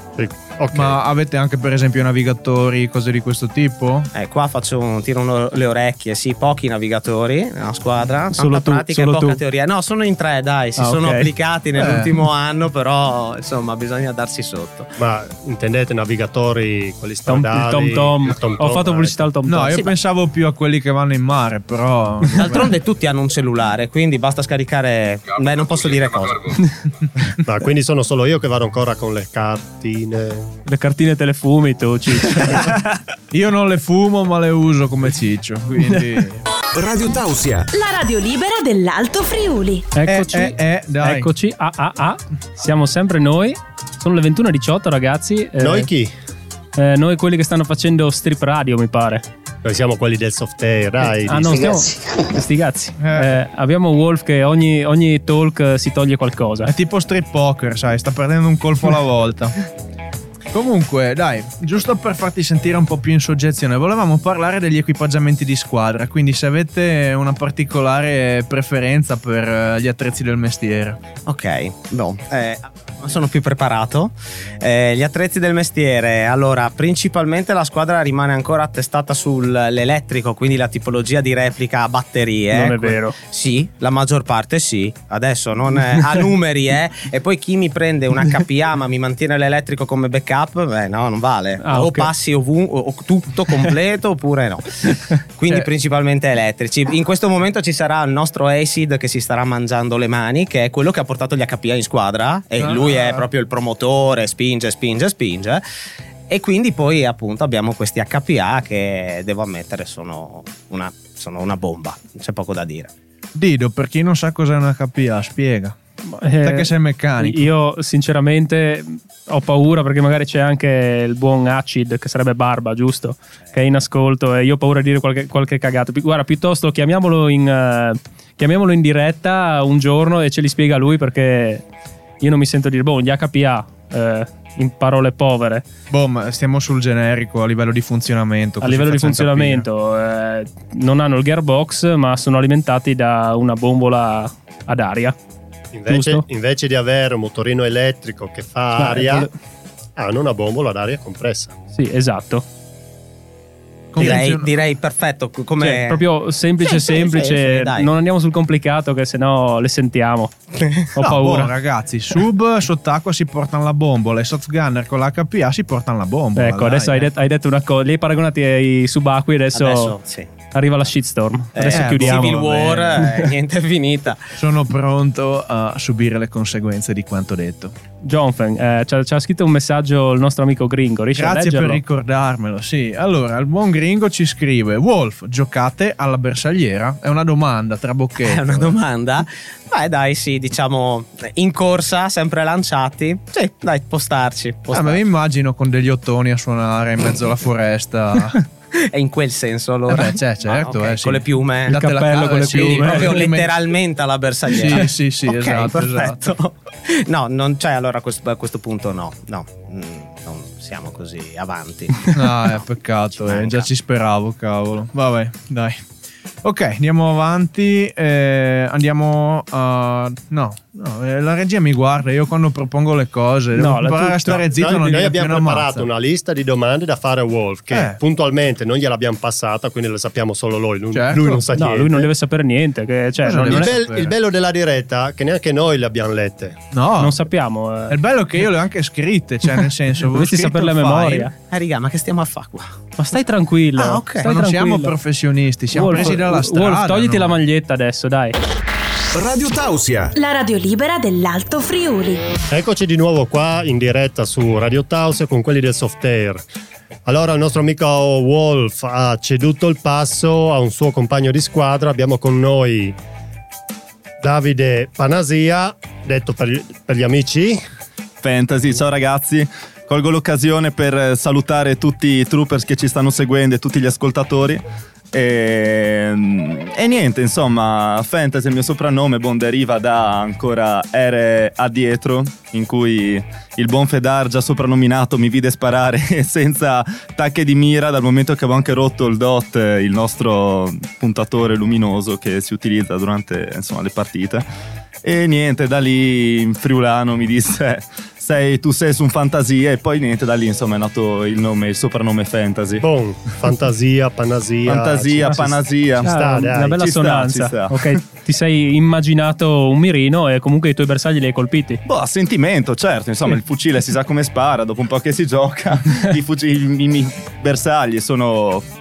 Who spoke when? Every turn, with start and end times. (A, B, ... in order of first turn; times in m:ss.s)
0:00.2-0:01.0 A
0:00.7-0:04.1 B
0:04.1-0:14.9 C
0:08.3-0:09.4 D
0:10.8-0:11.3 D
0:11.8-0:12.1 B
0:15.0-0:19.2 A
0:17.3-0:19.9 D
0:19.5-0:22.7 B
0:22.4-0:26.6 C
0:27.4-0:30.5 A
0:30.6-0:32.8 D
0:33.3-0:36.4 B
0:36.7-0:37.7 E
0:37.7-0:39.9 F
0:39.9-0:45.9 D
0:40.0-0:41.3 B
0:45.6-0:46.1 A
0:46.8-0:49.2 D
0:49.6-0:51.8 A
0:51.2-0:56.7 D
0:53.0-0:53.3 B
0:56.6-0:59.6 B
1:00.5-1:11.0 B
1:11.2-1:45.6 C
1:22.5-1:23.2 D
1:31.6-1:32.1 D
1:42.6-1:43.2 B
1:46.3-1:52.9 C
1:53.3-1:55.8 B
1:56.1-2:11.6 D
1:56.4-1:57.5 B
2:12.2-2:15.6 D
2:15.9-2:19.6 B
2:18.6-2:25.1 D
2:25.7-2:29.3 A
2:25.9-2:26.2 D
2:28.8-2:29.3 D
2:30.0-2:31.5 A
2:31.7-2:32.4 D
2:33.9-2:34.5 B
2:34.0-2:36.0 C
2:35.6-2:41.5 D
2:36.6-2:37.9 C
2:41.0-2:47.1 B
2:46.4-2:49.9 D
2:49.5-2:50.3 C
2:50.5-2:53.2 D
2:51.5-2:54.2 C
2:51.7-2:53.0 B
2:54.4-2:57.7 B
2:58.0-3:01.8 D
3:01.1-3:08.8 B
3:08.2-3:15.0 C
3:14.7-3:18.4 B
3:18.8-3:21.8 C
3:19.9-3:23.6 B
3:21.7-3:23.2 D
3:22.5-3:32.6 C
3:24.5-3:26.3 B
3:32.1-3:35.8 B
3:33.2-3:33.7 C
3:36.4-3:45.9 B
3:43.5-3:44.8 D
3:44.5-3:52.1 A
3:47.7-3:48.0 B
3:50.9-3:51.4 B
3:51.5-3:53.7 D
3:53.2-3:54.1 B
3:53.4-3:56.6 A
3:56.7-3:57.2 B
3:57.0-3:58.0 D
3:57.9-4:01.3 B
4:00.1-4:01.3 D
4:01.5-4:02.7 C
4:03.0-4:04.9 D
4:03.8-4:04.3 C
4:04.2-4:07.4 B
4:05.7-4:08.4 D
4:09.1-4:10.1 E
4:10.1-4:12.2 F
4:12.5-4:16.4 A
4:17.0-4:23.0 A
4:24.2-4:27.6 A
4:28.2-4:54.4 G
4:55.0-5:02.8 G
5:02.8-5:06.8 A
5:04.6-5:08.0 G
5:06.0-5:11.8 D
5:11.8-5:18.6 G